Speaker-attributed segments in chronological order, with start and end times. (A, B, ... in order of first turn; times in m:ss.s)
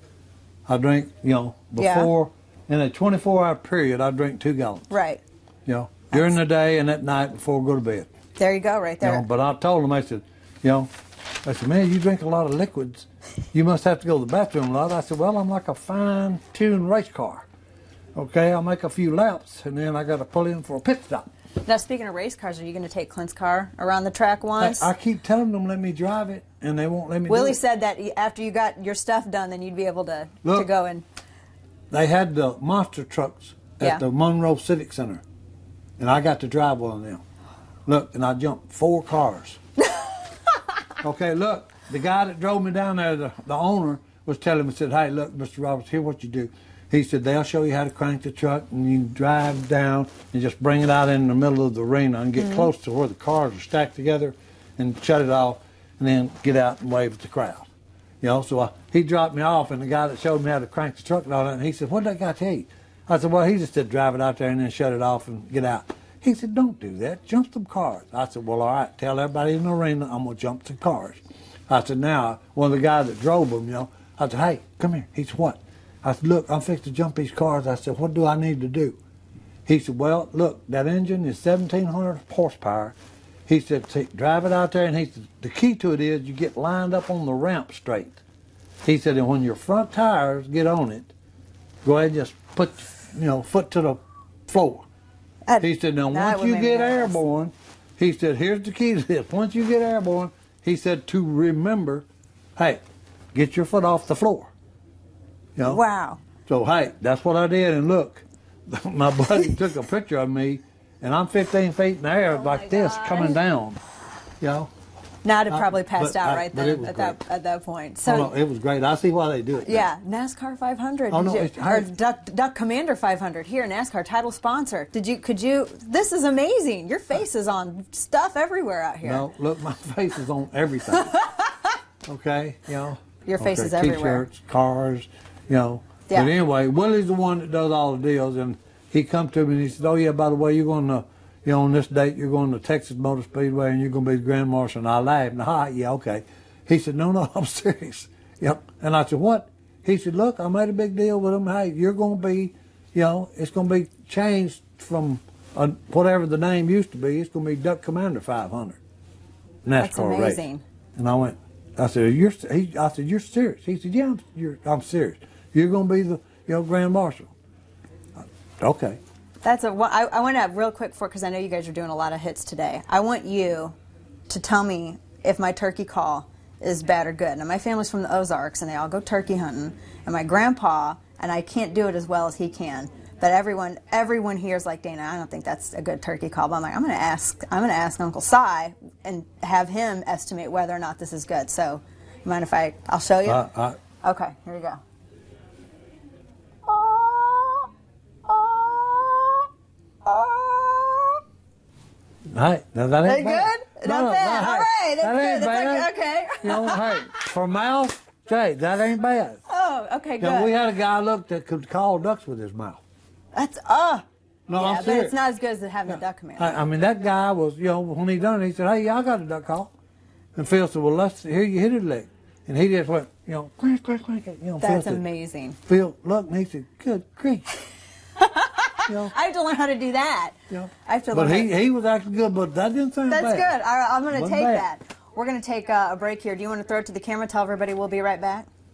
0:00.7-0:04.9 A
0:01.8-0:02.1 B
0:04.9-0:05.2 B
0:05.6-0:08.1 A
0:08.4-0:09.2 B
0:09.0-0:10.9 A
0:11.4-0:17.5 A
0:18.1-0:21.3 A
0:21.6-0:24.9 B
0:24.6-0:27.6 A
0:27.3-0:31.0 B
0:30.4-0:30.7 A
0:31.9-0:35.2 A
0:36.0-0:37.2 A
0:37.8-0:39.6 A
0:41.0-0:57.7 A
0:52.4-0:52.7 B
0:58.2-1:19.0 A
1:19.6-1:23.0 A
1:23.5-1:28.2 A
1:28.8-1:31.1 A
1:31.8-1:34.8 A
1:35.4-1:37.2 B
1:35.6-1:42.8 A
1:43.3-1:44.5 A
1:45.6-1:45.8 A
1:45.6-1:46.2 B
1:46.4-1:53.8 A
1:52.3-1:53.4 B
1:54.4-1:54.7 A
1:55.2-1:58.3 B
1:55.5-1:57.2 A
1:58.0-1:59.9 A
1:59.6-2:09.2 B
2:01.1-2:01.9 A
2:09.0-2:11.1 A
2:11.1-2:11.7 B
2:12.0-2:38.8 A
2:13.2-2:14.2 B
2:39.6-2:40.4 A
2:39.8-2:40.6 B
2:41.0-2:47.3 A
2:48.6-2:49.0 A
2:49.4-2:53.8 B
2:54.3-3:13.4 B
3:13.2-3:13.8 A
3:14.0-3:14.8 B
3:16.6-3:17.7 B
3:18.2-3:19.5 B
3:20.0-3:21.2 B
3:22.3-3:25.9 A
3:23.0-3:27.2 B
3:26.4-3:29.4 A
3:29.5-3:30.5 B
3:30.2-3:32.8 A
3:33.3-3:34.0 B
3:34.5-3:35.2 A
3:34.6-3:36.6 B
3:35.9-3:39.7 A
3:40.3-3:45.0 A
3:44.6-3:45.6 B
3:45.6-3:47.5 A
3:48.2-3:51.5 B
3:48.9-3:49.1 A
3:50.5-3:53.6 A
3:53.1-3:58.5 B
3:54.1-3:54.7 A